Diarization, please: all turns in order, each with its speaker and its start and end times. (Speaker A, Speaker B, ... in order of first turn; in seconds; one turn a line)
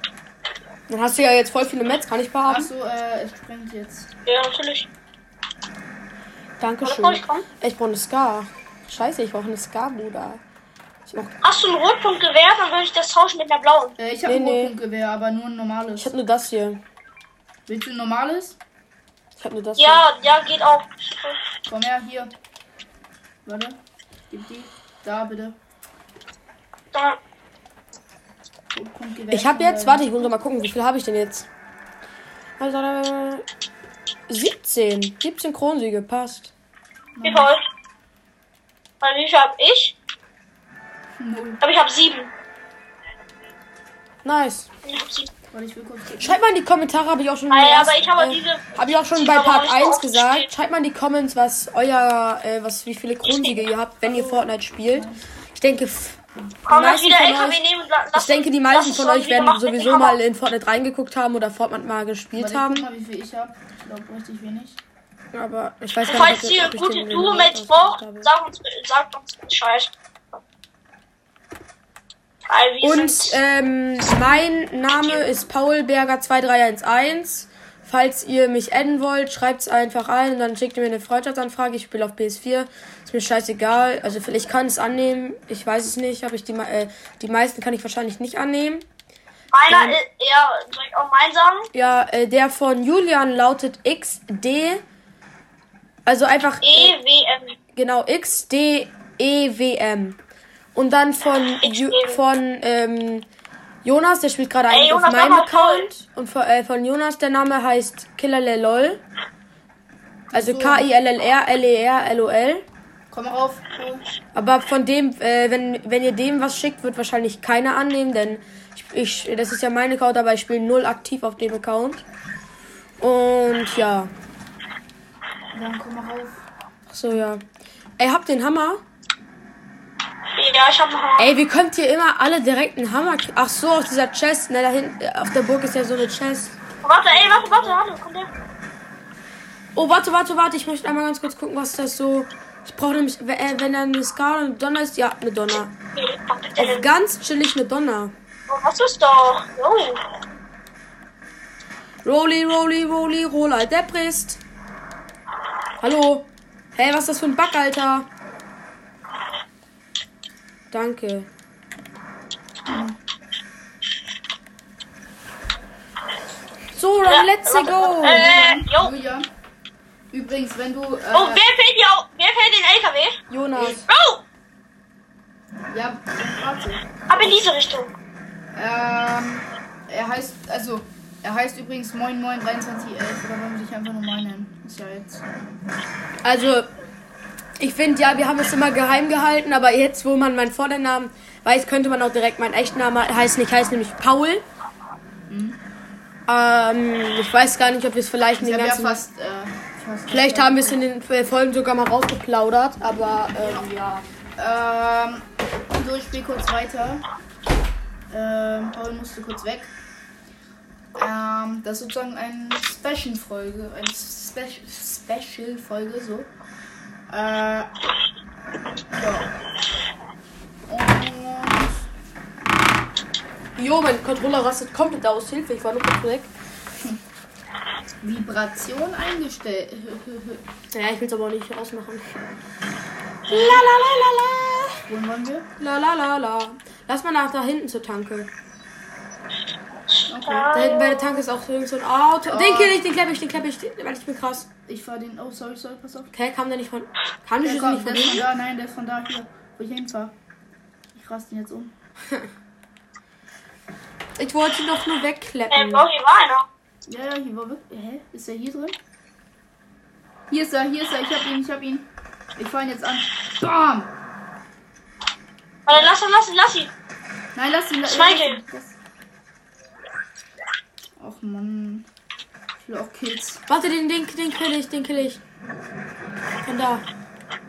Speaker A: 0.9-2.7
Speaker B: 2.5-4.1
Speaker C: 4.2-4.9
Speaker A: 6.6-10.4
Speaker C: 6.8-7.5
Speaker A: 11.1-11.3
Speaker C: 11.4-13.9
Speaker B: 14.0-16.1
Speaker A: 14.2-14.7
Speaker A: 16.0-16.8
Speaker B: 17.7-18.6
Speaker A: 19.4-20.0
Speaker C: 19.8-21.4
Speaker B: 21.7-22.3
Speaker B: 23.4-23.8
Speaker B: 24.3-25.6
Speaker B: 28.7-30.3
Speaker A: 29.3-31.5
Speaker A: 32.6-33.5
Speaker A: 34.3-36.5
Speaker B: 37.2-37.5
Speaker C: 37.2-37.6
Speaker C: 39.0-39.9
Speaker B: 41.2-41.6
Speaker C: 41.6-42.3
Speaker A: 44.2-44.7
Speaker C: 44.8-45.3
Speaker B: 45.5-46.4
Speaker A: 46.2-62.9
Speaker C: 47.5-50.5
Speaker B: 54.0-55.2
Speaker C: 56.7-60.2
Speaker B: 62.3-64.8
Speaker A: 65.3-68.3
Speaker C: 66.0-69.9
Speaker C: 72.5-73.4
Speaker A: 72.8-88.8
Speaker C: 89.5-91.7
Speaker A: 89.7-90.0
Speaker A: 91.7-94.8
Speaker A: 96.0-97.0
Speaker C: 96.6-97.6
Speaker A: 97.7-100.2
Speaker A: 100.7-103.3
Speaker C: 101.6-102.2
Speaker A: 103.8-109.0
Speaker C: 104.7-105.9
Speaker B: 110.3-110.9
Speaker A: 110.3-112.7
Speaker B: 113.1-114.0
Speaker A: 114.3-122.0
Speaker A: 123.0-124.1
Speaker B: 125.5-126.4
Speaker A: 126.9-127.4
Speaker A: 128.0-128.8
Speaker C: 130.3-131.3
Speaker A: 131.2-137.8
Speaker C: 136.8-138.3
Speaker A: 139.7-145.7
Speaker C: 145.9-146.9
Speaker A: 146.6-148.1
Speaker C: 148.5-150.0
Speaker A: 152.0-154.4
Speaker A: 155.8-158.1
Speaker A: 160.7-161.3
Speaker B: 162.7-163.0
Speaker A: 166.7-168.3
Speaker C: 167.0-168.9
Speaker B: 168.1-169.3
Speaker B: 170.1-171.5
Speaker C: 171.1-173.2
Speaker A: 173.3-173.8
Speaker B: 173.5-173.8
Speaker C: 173.9-174.2
Speaker B: 175.7-177.4
Speaker C: 177.1-177.9
Speaker B: 178.5-185.2
Speaker A: 186.2-186.7
Speaker A: 187.6-194.4
Speaker B: 195.3-195.6
Speaker A: 196.3-199.0
Speaker B: 198.4-200.8
Speaker A: 200.1-204.0
Speaker B: 203.4-203.7
Speaker B: 204.3-205.2
Speaker B: 205.8-207.0
Speaker B: 208.1-209.7
Speaker B: 210.9-216.3
Speaker B: 217.1-217.7
Speaker B: 218.9-219.3
Speaker B: 220.7-221.8
Speaker A: 223.6-226.3
Speaker B: 228.0-230.4
Speaker A: 230.7-232.2
Speaker B: 233.3-233.6
Speaker A: 233.3-234.8
Speaker B: 234.9-235.5
Speaker A: 235.6-238.3
Speaker B: 240.1-240.6
Speaker C: 240.2-241.2
Speaker A: 240.5-244.5
Speaker B: 242.2-242.8
Speaker B: 244.7-246.1
Speaker A: 246.1-248.2
Speaker B: 247.4-250.1
Speaker B: 250.9-251.7
Speaker A: 254.2-255.9
Speaker C: 255.5-256.5
Speaker B: 256.9-258.8
Speaker B: 260.3-263.9
Speaker C: 265.7-266.7
Speaker B: 265.7-266.0
Speaker B: 267.4-268.8
Speaker C: 267.9-268.4
Speaker B: 271.0-271.9
Speaker B: 272.6-273.4
Speaker A: 273.5-275.2
Speaker A: 276.4-276.8